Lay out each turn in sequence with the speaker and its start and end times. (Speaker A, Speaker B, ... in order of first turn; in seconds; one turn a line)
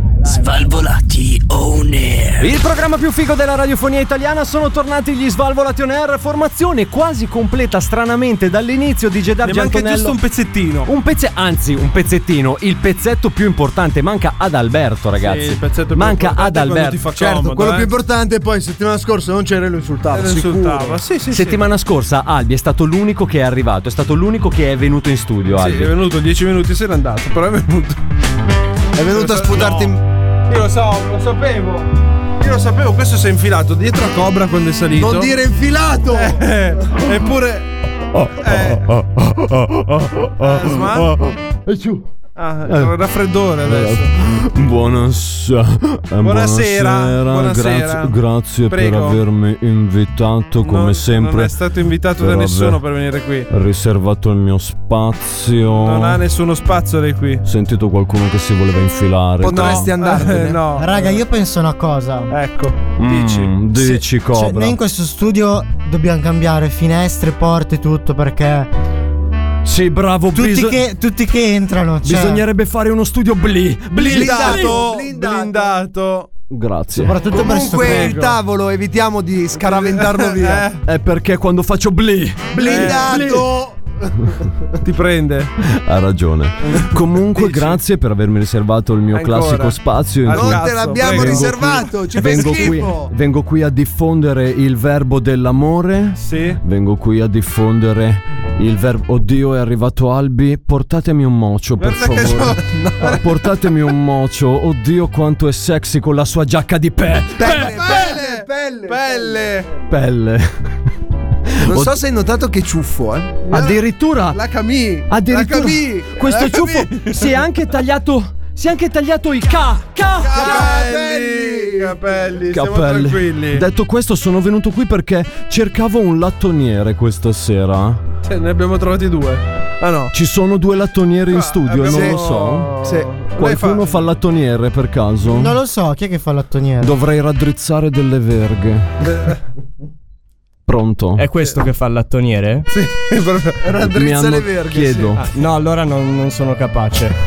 Speaker A: 2.4-10.2
Speaker B: 9.4-10.9
Speaker A: 10.9-17.0
Speaker B: 15.2-17.9
Speaker C: 17.2-21.0
Speaker B: 20.1-21.6
Speaker A: 21.3-25.9
Speaker B: 25.6-28.0
Speaker C: 28.9-30.0
Speaker B: 29.0-30.0
Speaker B: 30.5-35.3
Speaker C: 34.9-36.4
Speaker B: 36.1-37.7
Speaker B: 38.3-39.0
Speaker A: 38.8-42.1
Speaker B: 40.4-41.2
Speaker B: 42.4-44.1
Speaker A: 42.7-42.9
Speaker A: 43.6-51.6
Speaker B: 46.2-49.2
Speaker B: 50.6-53.5
Speaker A: 52.2-52.8
Speaker A: 53.5-56.2
Speaker B: 55.8-57.4
Speaker A: 57.4-59.9
Speaker C: 59.4-60.6
Speaker B: 59.4-61.2
Speaker D: 60.8-62.4
Speaker B: 62.3-63.5
Speaker A: 63.0-64.8
Speaker D: 63.8-68.7
Speaker A: 69.6-70.8
Speaker D: 70.3-72.5
Speaker A: 72.0-74.8
Speaker B: 74.0-76.3
Speaker C: 74.0-75.7
Speaker A: 76.5-77.2
Speaker D: 76.9-78.1
Speaker C: 77.3-80.7
Speaker B: 77.7-78.4
Speaker B: 79.6-80.8
Speaker A: 80.8-83.4
Speaker C: 82.5-84.4
Speaker B: 82.6-83.5
Speaker B: 84.8-85.5
Speaker A: 85.6-108.0
Speaker B: 86.6-87.8
Speaker B: 89.1-92.8
Speaker C: 90.3-93.1
Speaker B: 96.2-96.6
Speaker B: 101.8-103.2
Speaker C: 102.6-103.2
Speaker C: 107.4-109.4
Speaker B: 107.4-109.7
Speaker A: 109.9-110.8
Speaker A: 111.5-112.0
Speaker C: 111.6-113.7
Speaker A: 113.5-114.4
Speaker B: 114.3-117.4
Speaker A: 115.1-120.7
Speaker B: 120.2-123.6
Speaker C: 120.3-122.0
Speaker A: 122.5-128.0
Speaker B: 128.2-130.1
Speaker A: 130.1-132.7
Speaker B: 131.3-134.1
Speaker C: 131.9-132.2
Speaker C: 132.8-133.1
Speaker A: 133.3-135.5
Speaker D: 135.3-136.9
Speaker A: 136.8-138.9
Speaker B: 139.1-139.4
Speaker A: 140.7-141.3
Speaker E: 141.2-142.7
Speaker B: 142.7-143.6
Speaker C: 143.6-145.2
Speaker A: 143.8-145.2
Speaker E: 145.2-147.2